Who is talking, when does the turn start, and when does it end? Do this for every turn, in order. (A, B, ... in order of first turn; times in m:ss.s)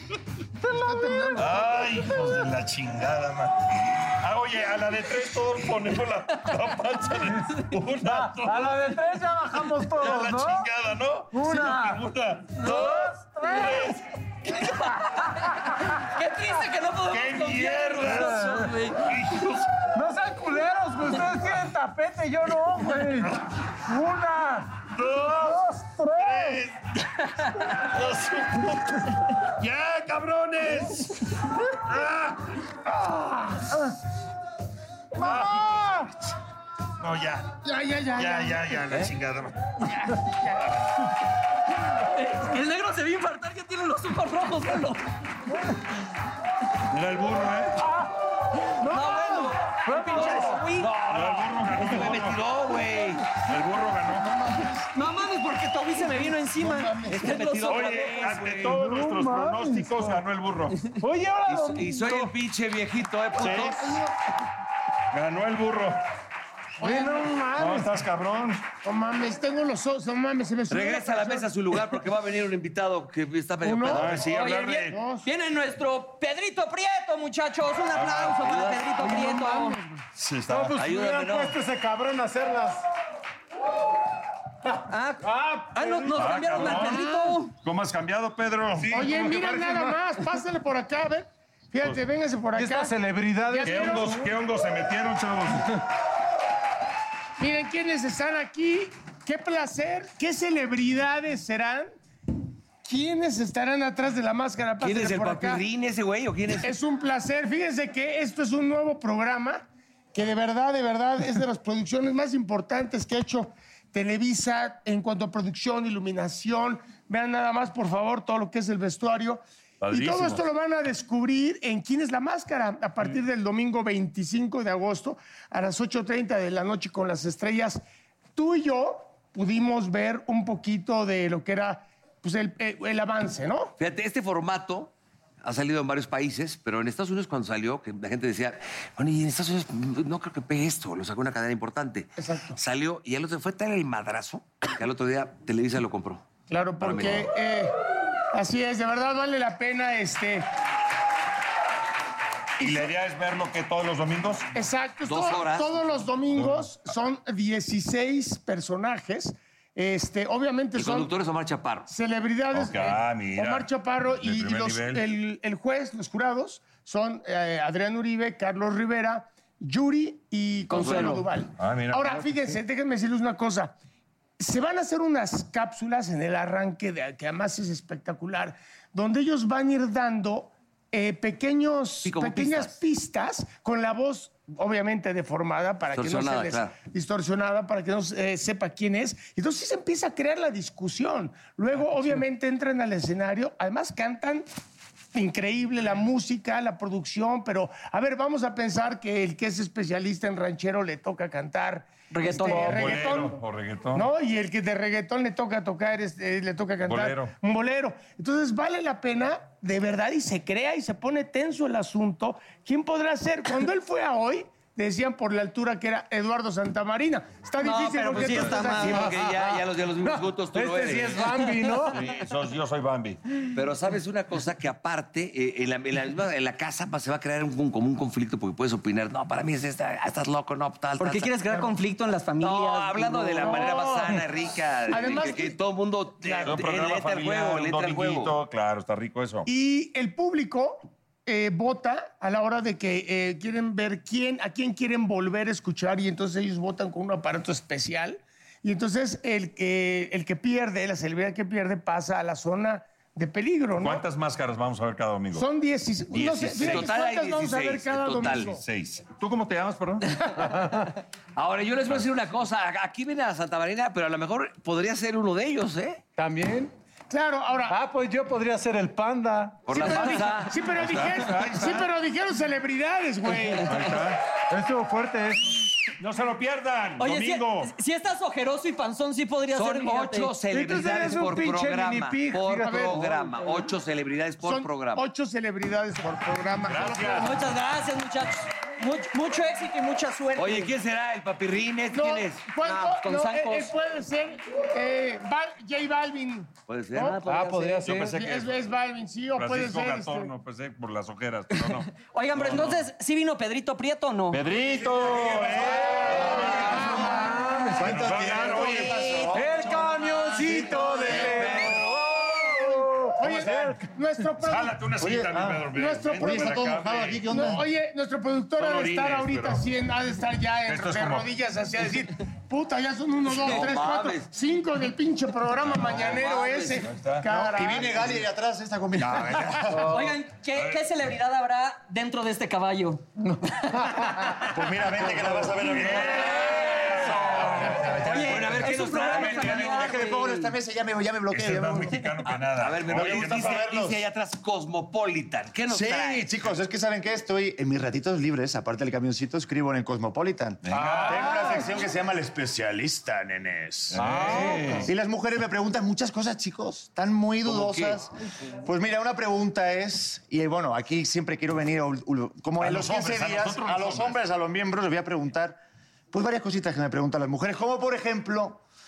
0:00.6-0:02.4 A
0:00.7-0:01.7 B
0:01.4-0:08.8 C
0:07.3-0:10.7 A
0:10.0-0:12.9 C
0:11.3-0:14.0 A
0:12.6-0:12.9 D
0:13.5-0:14.0 C
0:14.6-0:19.1 D
0:15.0-0:16.0 A
0:17.1-0:19.7 C
0:18.0-0:18.8 A
0:19.9-0:26.6 A
0:24.9-0:25.6 C
0:26.2-0:27.2 C
0:27.7-0:31.2 C
0:31.8-0:32.4 C
0:32.9-0:33.7 B
0:35.2-0:35.8 C
0:35.4-0:36.1 A
0:37.0-0:37.5 C
0:37.6-0:38.8 B
0:38.2-0:39.6 C
0:39.8-0:40.7 B
0:42.0-0:45.0 D
0:46.9-0:47.8 C
0:47.8-0:48.1 A
0:48.7-0:50.7 A
0:48.8-0:51.0 D
0:50.8-0:53.3 E
0:51.0-0:52.4 C
0:53.4-0:54.4 C
0:54.9-0:58.7 D
0:56.0-0:57.3 B
0:57.1-0:58.6 E
0:57.7-1:00.8 C
0:58.5-1:00.2 A
1:01.0-1:02.3 A
1:01.5-1:04.0 E
1:03.4-1:03.8 C
1:03.5-1:04.1 B
1:05.1-1:06.0 C
1:06.8-1:07.3 B
1:06.8-1:08.0 A
1:07.6-1:08.6 C
1:08.8-1:11.5 B
1:10.7-1:14.3 E
1:13.6-1:14.3 B
1:13.9-1:15.0 C
1:14.2-1:19.8 D
1:14.9-1:15.3 B
1:17.9-1:18.5 C
1:18.4-1:18.8 E
1:19.0-1:20.0 B
1:20.1-1:20.8 C
1:20.5-1:22.8 A
1:20.8-1:21.6 E
1:24.9-1:27.6 D
1:25.2-1:27.0 A
1:26.1-1:29.1 C
1:28.8-1:30.0 A
1:28.9-1:32.9 B
1:32.6-1:34.3 A
1:33.5-1:34.3 B
1:33.6-1:35.7 C
1:37.4-1:41.9 B
1:42.8-1:45.6 B
1:44.8-1:46.8 E
1:46.6-2:07.8 B
1:59.8-2:00.4 C
2:08.4-2:13.7 B
2:13.8-2:14.9 E
2:15.4-2:26.2 E
2:22.2-2:22.6 B
2:26.5-2:27.7 B
2:26.8-2:27.3 E
2:28.3-2:30.5 B
2:32.6-2:34.5 C
2:32.6-2:32.9 B
2:34.5-2:41.1 B
2:35.0-2:35.9 E
2:36.3-2:36.7 C
2:40.8-2:41.9 E
2:41.9-2:53.8 B
2:42.5-2:45.0 C
2:50.7-2:51.3 E
2:51.6-2:52.2 C
2:54.4-3:14.5 B
3:02.0-3:02.8 E
3:05.9-3:06.8 E
3:15.1-3:23.4 B
3:22.1-3:23.1 D
3:22.5-3:24.1 C
3:23.9-3:39.1 B
3:26.9-3:27.3 C
3:37.6-3:39.1 D
3:38.2-3:41.5 E
3:38.6-3:42.0 A
3:41.9-3:43.2 C
3:43.5-3:51.3 E
3:51.0-3:54.1 D
3:52.4-3:58.4 E
3:53.4-3:54.2 B
3:54.9-3:55.6 B
3:56.2-3:56.6 B
3:56.4-3:59.5 C
3:59.5-4:14.0 B
4:13.8-4:15.5 C
4:15.3-4:18.6 B
4:16.1-4:16.9 C
4:16.6-4:18.6 E
4:18.5-4:20.2 C
4:20.4-4:20.9 A
4:21.4-4:26.0 E
4:26.2-4:26.7 A
4:27.1-4:27.8 B
4:27.7-4:30.3 A
4:29.7-4:30.5 E
4:29.8-4:33.9 B
4:29.8-4:30.5 D
4:30.8-4:31.9 C
4:33.6-4:34.2 C
4:34.5-4:35.6 A
4:36.0-4:37.7 C
4:37.0-4:40.3 D
4:39.5-4:45.1 E
4:40.5-4:43.2 A
4:42.6-4:43.4 B
4:44.4-4:47.3 B
4:46.6-4:47.4 C
4:47.1-4:50.7 D
4:50.4-4:52.5 E
4:51.9-4:57.2 B
4:52.6-4:53.8 D
4:56.7-4:57.2 E
4:57.0-4:57.9 D
4:57.3-4:58.2 A
4:57.8-4:58.7 C
4:58.0-5:00.3 B
4:59.4-5:02.9 C
5:01.5-5:04.4 D
5:04.3-5:06.6 C
5:05.1-5:08.2 A
5:06.1-5:07.4 B
5:07.8-5:09.6 F
5:07.8-5:09.2 C
5:08.5-5:09.3 B
5:09.3-5:13.9 A
5:10.4-5:11.6 B
5:11.1-5:11.9 E
5:13.2-5:14.8 B
5:14.4-5:17.6 C
5:15.0-5:17.6 F
5:15.6-5:28.2 B
5:18.6-5:19.7 C
5:20.7-5:21.3 C
5:23.3-5:24.3 E
5:25.8-5:26.9 E
5:26.8-5:27.3 C
5:27.2-5:30.0 F
5:29.8-5:34.4 D
5:30.5-5:30.8 C
5:33.2-5:35.6 A
5:34.5-5:42.1 F
5:35.6-5:40.0 C
5:36.3-5:37.1 D
5:38.0-5:40.5 D
5:38.2-5:39.9 E
5:41.3-5:43.6 C
5:42.3-5:46.3 E
5:42.8-5:44.0 F
5:45.7-6:05.6 F
5:50.6-5:51.6 C
5:50.7-5:51.7 A
5:53.9-5:54.9 C
5:54.0-5:54.9 A
5:57.5-5:58.0 E
6:02.6-6:04.2 C
6:06.1-6:08.6 F